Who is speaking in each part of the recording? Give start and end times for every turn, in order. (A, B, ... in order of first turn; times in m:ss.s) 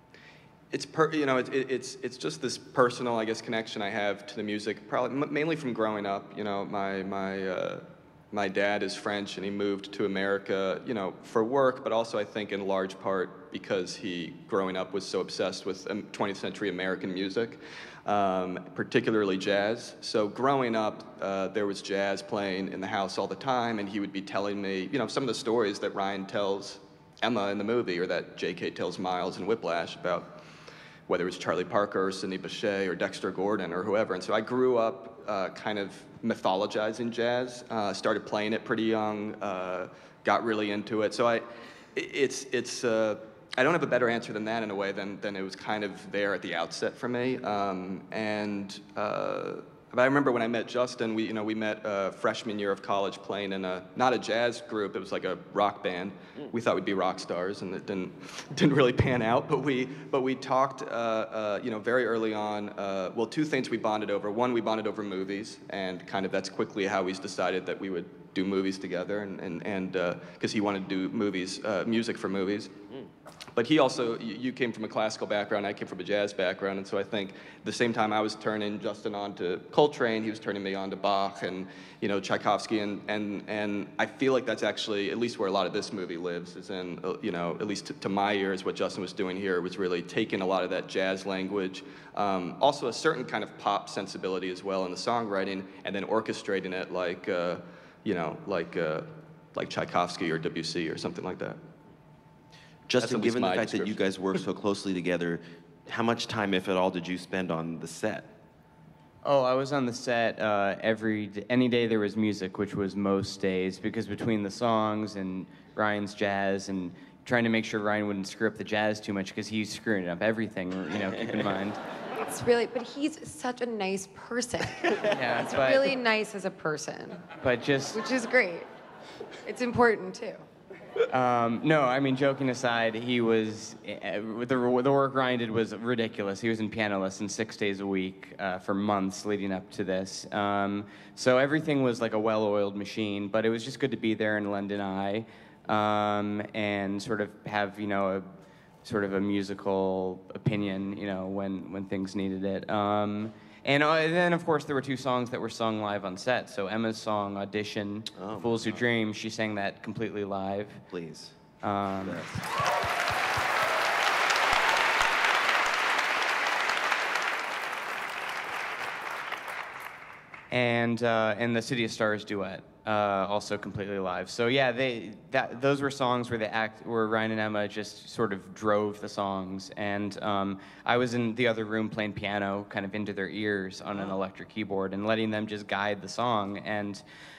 0:00.7-0:30.4 A
0:31.1-1:12.8 A
1:13.6-1:41.6 A
1:42.9-1:48.3 B
1:43.0-1:44.0 A
1:49.2-2:01.8 C
2:02.3-2:07.2 D
2:05.1-2:05.9 C
2:07.4-2:08.0 C
2:07.9-2:08.7 D
2:09.4-2:10.5 D
2:11.1-2:28.3 C
2:28.8-2:40.8 C
2:38.2-2:38.8 B
2:40.9-2:41.4 B
2:41.6-2:42.3 C
2:42.0-2:42.5 B
2:50.5-3:07.0 C